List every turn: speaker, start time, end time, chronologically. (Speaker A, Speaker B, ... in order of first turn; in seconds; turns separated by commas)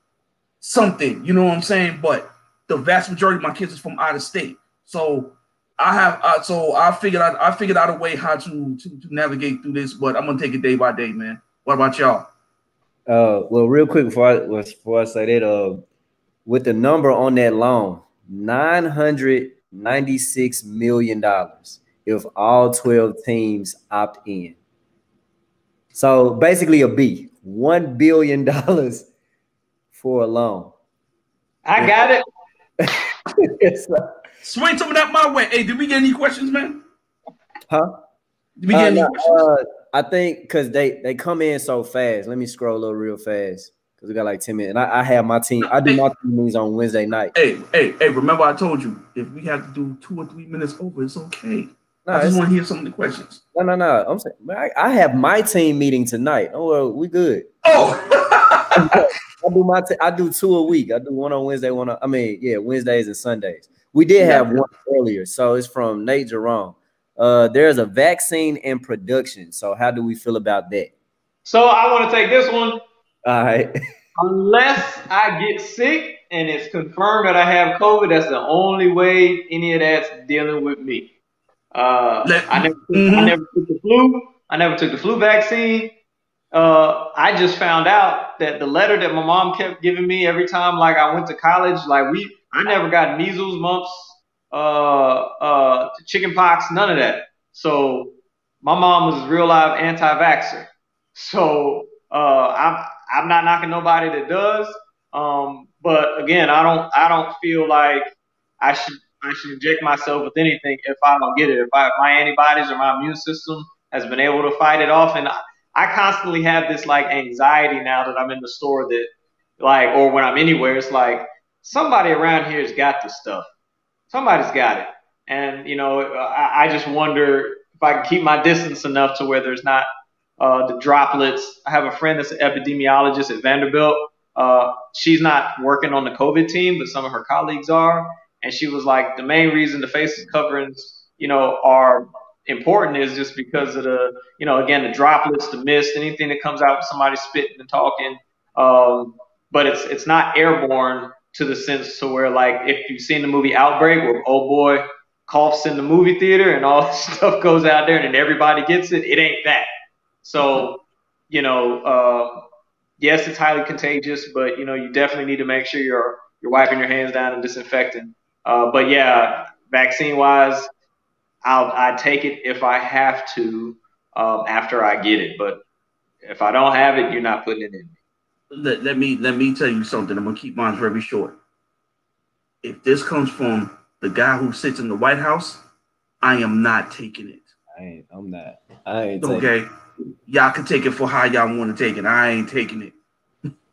Speaker A: 0.6-12.3, Speaker B: 13.1-15.8, Speaker B: 16.5-24.6, Speaker B: 25.9-29.1, Speaker B: 29.9-30.7, Speaker C: 31.6-32.2, Speaker B: 32.8-34.0, Speaker A: 34.4-36.8, Speaker A: 38.6-39.5, Speaker B: 38.7-47.3, Speaker A: 45.7-46.0, Speaker A: 47.3-53.4, Speaker B: 52.1-52.4, Speaker B: 53.5-57.8, Speaker A: 57.6-59.0, Speaker B: 58.8-70.9, Speaker A: 64.2-64.7, Speaker C: 71.5-72.8, Speaker B: 73.2-73.8, Speaker C: 74.2-81.1, Speaker C: 81.7-85.9, Speaker A: 82.2-83.4, Speaker C: 86.5-108.1, Speaker C: 108.6-119.1, Speaker C: 119.6-123.5, Speaker C: 124.1-129.9, Speaker C: 130.4-159.7, Speaker C: 160.2-162.4, Speaker C: 163.0-170.7, Speaker C: 171.4-175.6, Speaker C: 176.2-178.0, Speaker A: 178.5-181.3, Speaker A: 182.6-185.6, Speaker A: 186.2-187.5, Speaker B: 187.8-189.5, Speaker A: 189.2-189.7, Speaker A: 190.3-192.9